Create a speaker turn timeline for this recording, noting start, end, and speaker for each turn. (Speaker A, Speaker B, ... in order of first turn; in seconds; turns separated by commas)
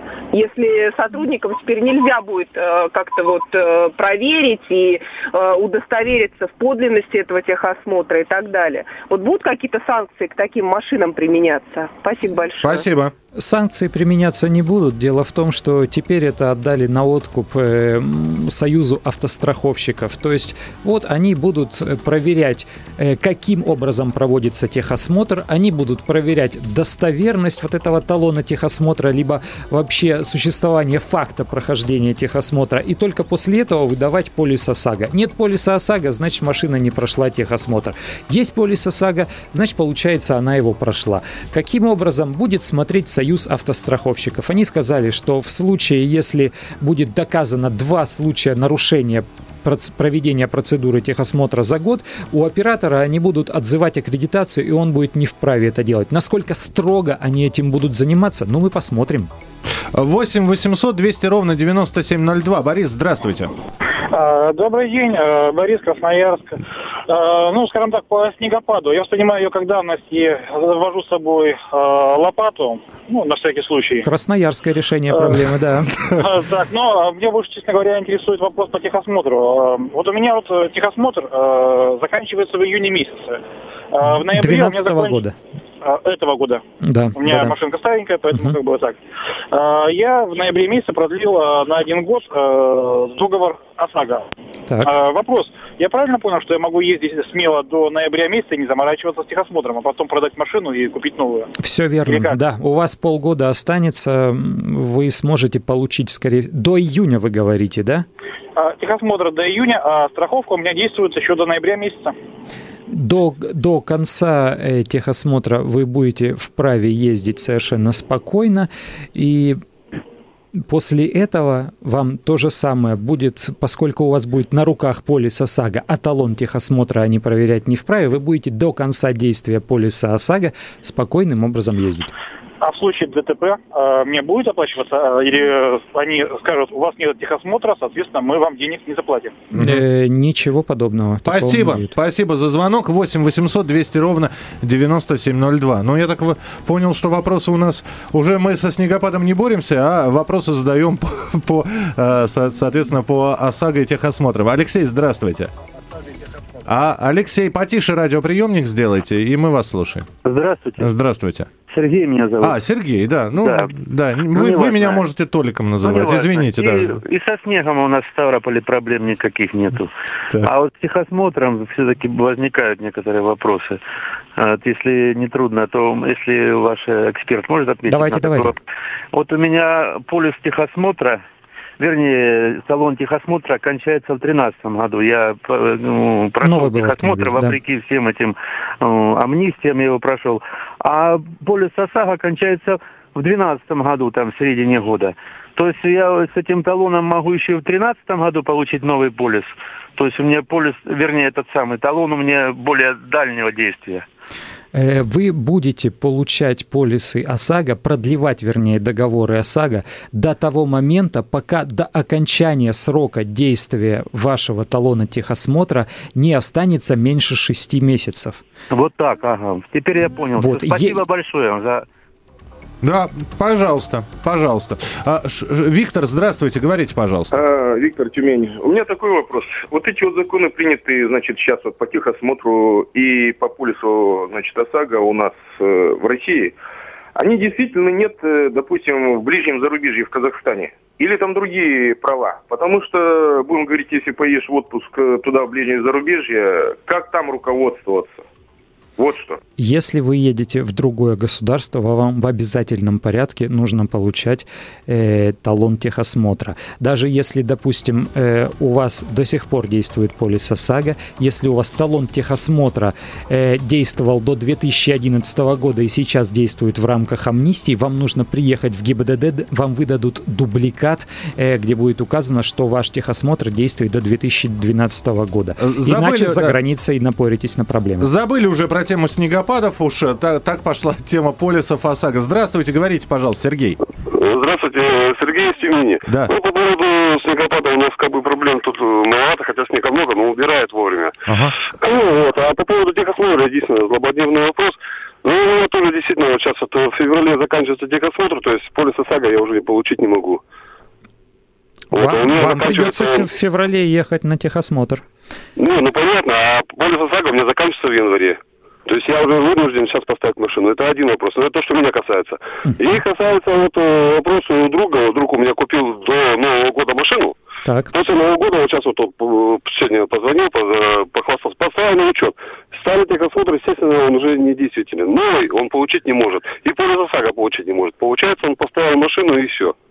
Speaker A: 0.3-12.8, Speaker B: 12.6-13.1, Speaker C: 13.3-59.3, Speaker B: 59.9-63.5, Speaker D: 64.1-66.5, Speaker D: 67.1-74.1, Speaker C: 74.0-75.9, Speaker D: 75.1-75.6, Speaker D: 76.1-83.4, Speaker D: 83.9-85.2, Speaker C: 84.1-85.3, Speaker D: 85.8-86.6, Speaker C: 86.8-87.6, Speaker D: 87.1-89.0, Speaker D: 89.5-94.2, Speaker C: 94.7-94.9, Speaker D: 94.8-101.5, Speaker C: 101.6-108.1, Speaker D: 102.1-102.4, Speaker D: 108.6-112.1, Speaker C: 112.9-119.6, Speaker C: 120.6-132.1, Speaker D: 132.6-139.3, Speaker B: 139.6-139.8, Speaker C: 139.6-141.9, Speaker B: 141.2-155.5, Speaker B: 156.7-160.1, Speaker E: 160.2-160.9, Speaker B: 160.8-161.5, Speaker E: 161.7-162.6, Speaker B: 162.4-167.0, Speaker E: 163.4-163.7, Speaker E: 164.3-165.1, Speaker E: 165.8-169.9, Speaker E: 170.4-173.8, Speaker E: 174.4-178.6, Speaker C: 177.9-178.5, Speaker E: 179.1-181.2, Speaker E: 181.8-204.1, Speaker C: 186.4-187.6, Speaker C: 204.7-218.4, Speaker E: 218.7-221.8, Speaker C: 220.3-221.0, Speaker B: 222.8-227.4, Speaker F: 227.3-236.6, Speaker F: 237.2-248.2, Speaker F: 249.0-249.4, Speaker C: 249.6-278.1, Speaker B: 275.6-276.6, Speaker B: 278.0-283.8, Speaker G: 284.1-291.1, Speaker B: 286.1-286.3, Speaker B: 291.3-291.5, Speaker G: 291.7-300.4, Speaker G: 301.9-303.3, Speaker C: 301.9-305.0, Speaker G: 305.6-317.3, Speaker C: 317.6-317.9, Speaker G: 317.9-329.7